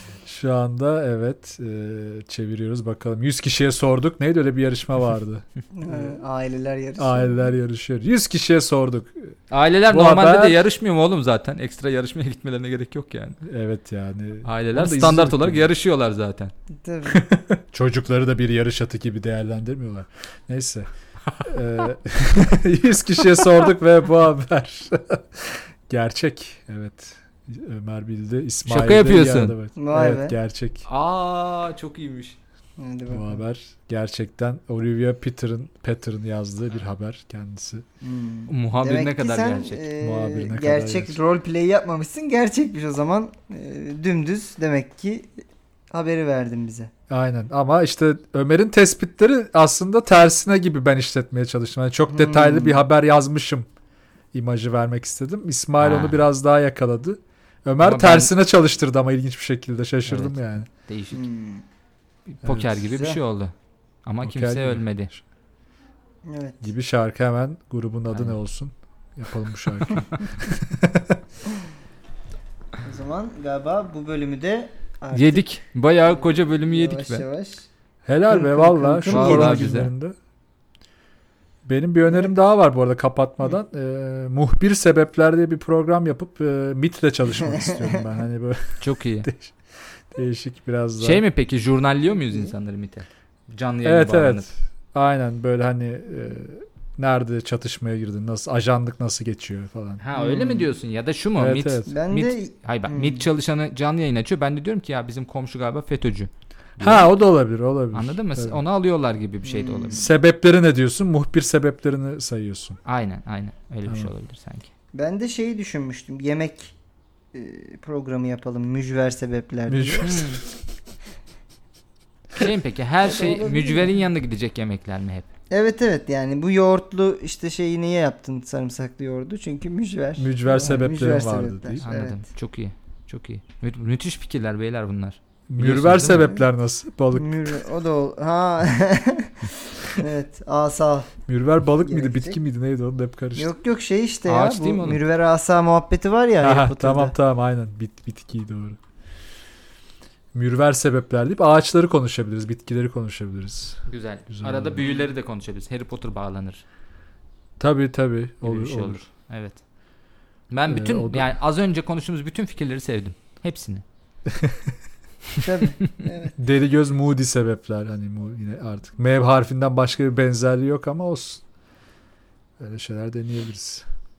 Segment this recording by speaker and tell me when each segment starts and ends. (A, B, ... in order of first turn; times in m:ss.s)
0:00.2-0:06.2 A
0:05.7-0:07.4 B
0:07.0-0:09.4 A
0:09.5-0:13.4 C
0:09.9-0:10.6 A
0:13.4-0:15.7 A
0:14.4-0:16.5 C
0:16.8-0:17.2 B
0:17.3-0:20.9 A
0:21.4-0:30.9 A
0:28.7-0:29.6 C
0:29.8-0:30.4 B
0:30.9-0:32.4 C
0:32.8-0:33.4 B
0:33.1-0:37.8 A
0:38.0-0:46.9 B
0:38.5-0:39.9 C
0:40.0-0:41.2 A
0:47.1-0:53.7 A
0:52.1-0:52.8 B
0:54.3-1:00.7 A
0:55.8-0:56.2 C
0:57.8-0:58.3 C
1:00.0-1:01.2 C
1:01.1-1:01.6 B
1:02.3-1:03.5 C
1:02.4-1:02.7 A
1:02.9-1:03.2 B
1:04.0-1:05.1 C
1:04.2-1:05.2 A
1:06.2-1:06.6 B
1:06.6-1:11.2 A
1:12.8-1:15.5 B
1:15.1-1:17.3 C
1:16.1-1:17.7 B
1:18.0-1:20.2 A
1:18.3-1:19.7 B
1:19.1-1:19.9 C
1:21.6-1:29.5 A
1:28.8-1:29.3 C
1:30.1-1:31.2 A
1:31.0-1:34.5 C
1:33.8-1:40.0 A
1:40.0-1:47.1 C
1:40.2-1:40.7 B
1:41.4-1:41.9 A
1:41.9-1:43.2 B
1:46.8-1:48.6 A
1:47.9-1:50.1 C
1:49.4-1:50.1 B
1:49.9-1:52.8 A
1:52.9-1:54.7 C
1:53.9-1:54.1 A
1:54.9-1:56.8 B
1:57.3-2:00.4 B
1:59.7-2:00.4 A
2:00.0-2:00.4 C
2:02.4-2:05.3 C
2:03.0-2:04.0 B
2:05.5-2:12.2 B
2:10.2-2:11.8 A
2:11.8-2:16.3 C
2:15.5-2:17.6 A
2:17.1-2:21.1 B
2:21.3-2:23.5 A
2:21.8-2:22.4 B
2:23.4-2:27.2 B
2:24.3-2:25.0 C
2:26.4-2:28.8 A
2:30.3-2:34.9 A
2:33.9-2:36.6 C
2:37.6-2:39.0 A
2:38.4-2:39.6 C
2:40.5-2:43.8 C
2:40.7-2:41.3 A
2:44.3-2:44.7 A
2:45.4-2:46.4 B
2:46.4-2:51.4 A
2:52.6-2:53.9 A